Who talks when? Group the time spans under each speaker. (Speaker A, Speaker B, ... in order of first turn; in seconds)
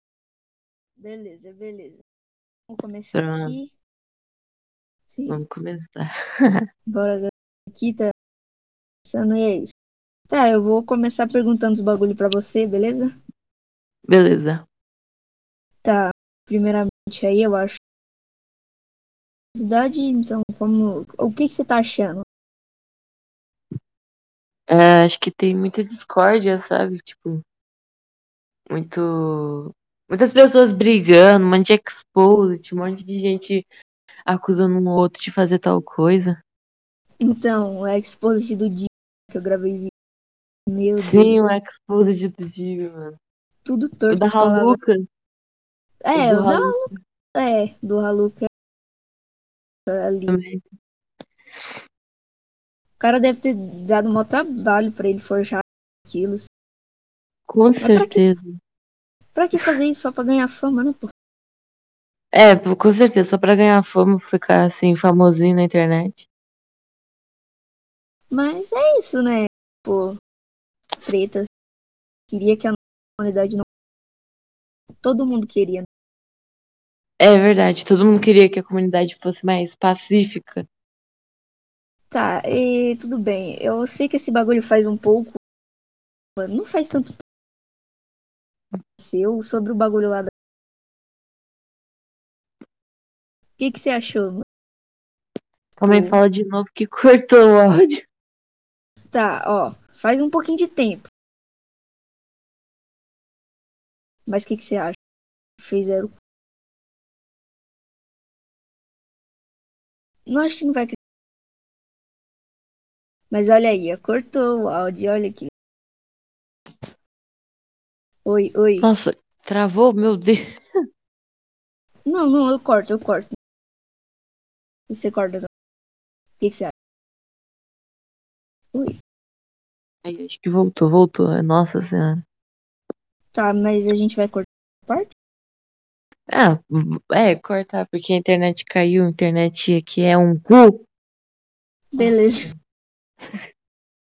Speaker A: 1.0-2.0, 2.7-3.7, 5.1-5.4, 6.9-8.1, 9.1-9.7, 10.3-13.1, 15.8-17.8, 19.6-22.2, 37.2-39.9, 40.7-41.4, 43.6-44.8, 46.0-46.8, 47.4-48.5, 49.9-50.4, 53.0-56.5, 57.8-58.3, 59.3-61.1, 68.3-70.2, 71.0-71.5, 72.3-73.6, 75.0-75.8, 82.1-85.4, 86.4-87.2, 89.0-90.3, 93.6-94.4, 95.8-96.2, 99.1-101.1, 104.3-105.0, 105.6-106.1, 110.3-111.0, 113.3-115.5, 118.2-118.9, 122.1-123.3, 124.9-125.5, 126.4-126.7, 133.3-135.1, 141.9-142.5
Speaker B: 3.1-3.5, 5.3-6.6, 14.1-14.6, 24.7-27.4, 28.7-33.6, 34.3-36.4, 41.0-43.2, 44.1-45.0, 46.1-46.9, 50.3-50.6, 57.5-58.6, 62.3-66.2, 77.2-80.7, 95.8-98.0, 118.8-120.4, 130.0-132.2, 136.3-140.8, 142.0-142.6